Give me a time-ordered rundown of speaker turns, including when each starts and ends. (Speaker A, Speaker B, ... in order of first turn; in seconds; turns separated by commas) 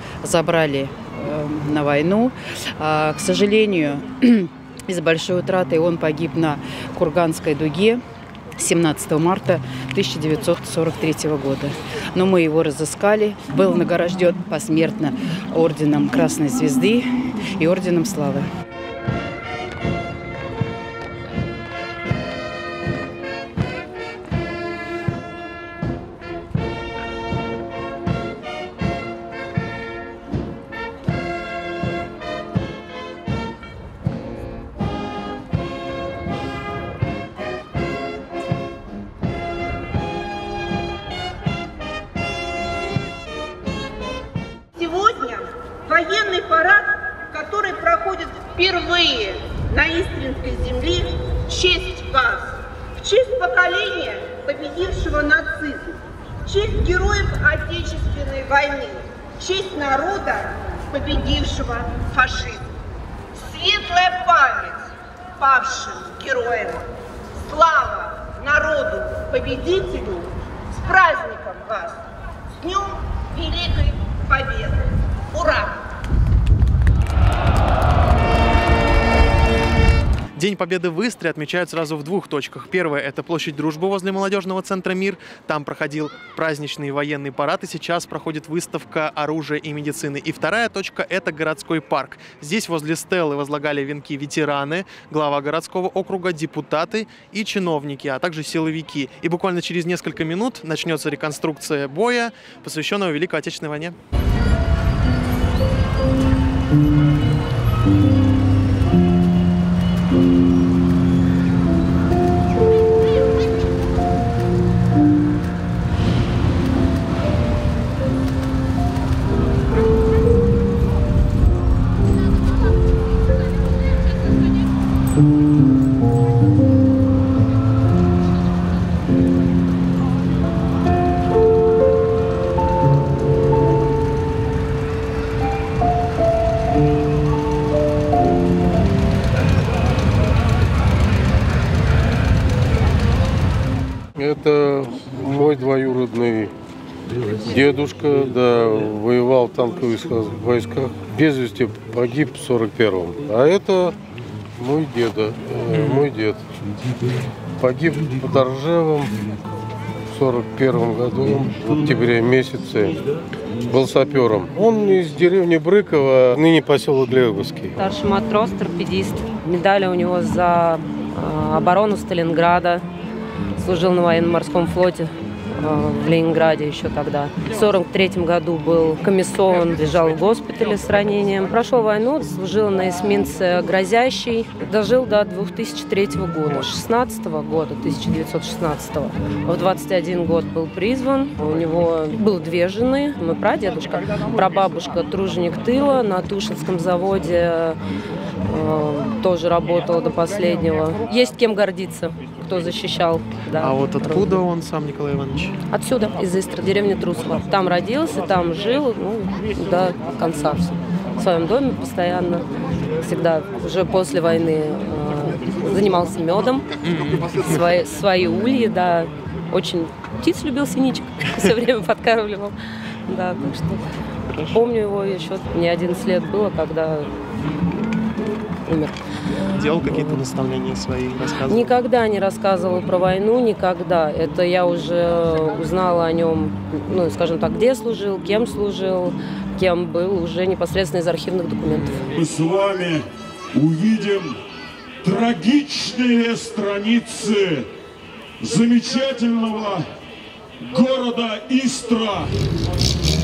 Speaker A: 0.2-8.0, Speaker A: 8.6-17.1, Speaker A: 17.6-18.4, Speaker B: 44.7-62.7, Speaker B: 63.3-64.9, Speaker B: 65.4-66.9, Speaker B: 67.4-72.0, Speaker B: 72.6-75.8, Speaker C: 80.4-104.0, Speaker D: 144.2-146.5, Speaker D: 147.4-153.9, Speaker D: 154.6-156.4, Speaker C: 155.7-156.0, Speaker D: 157.6-159.2, Speaker D: 160.1-163.0, Speaker D: 163.7-167.8, Speaker E: 167.8-172.8, Speaker E: 173.6-197.8, Speaker E: 198.5-204.2, Speaker C: 203.6-205.6, Speaker E: 205.7-212.5, Speaker E: 213.0-216.7, Speaker C: 216.8-217.6, Speaker E: 217.5-222.6, Speaker E: 223.1-223.8, Speaker C: 224.3-224.6, Speaker E: 224.6-227.1, Speaker E: 228.7-228.9, Speaker C: 229.5-231.7, Speaker E: 231.5-242.0, Speaker F: 242.1-244.4, Speaker F: 245.0-247.7, Speaker F: 248.4-249.9, Speaker F: 250.6-252.6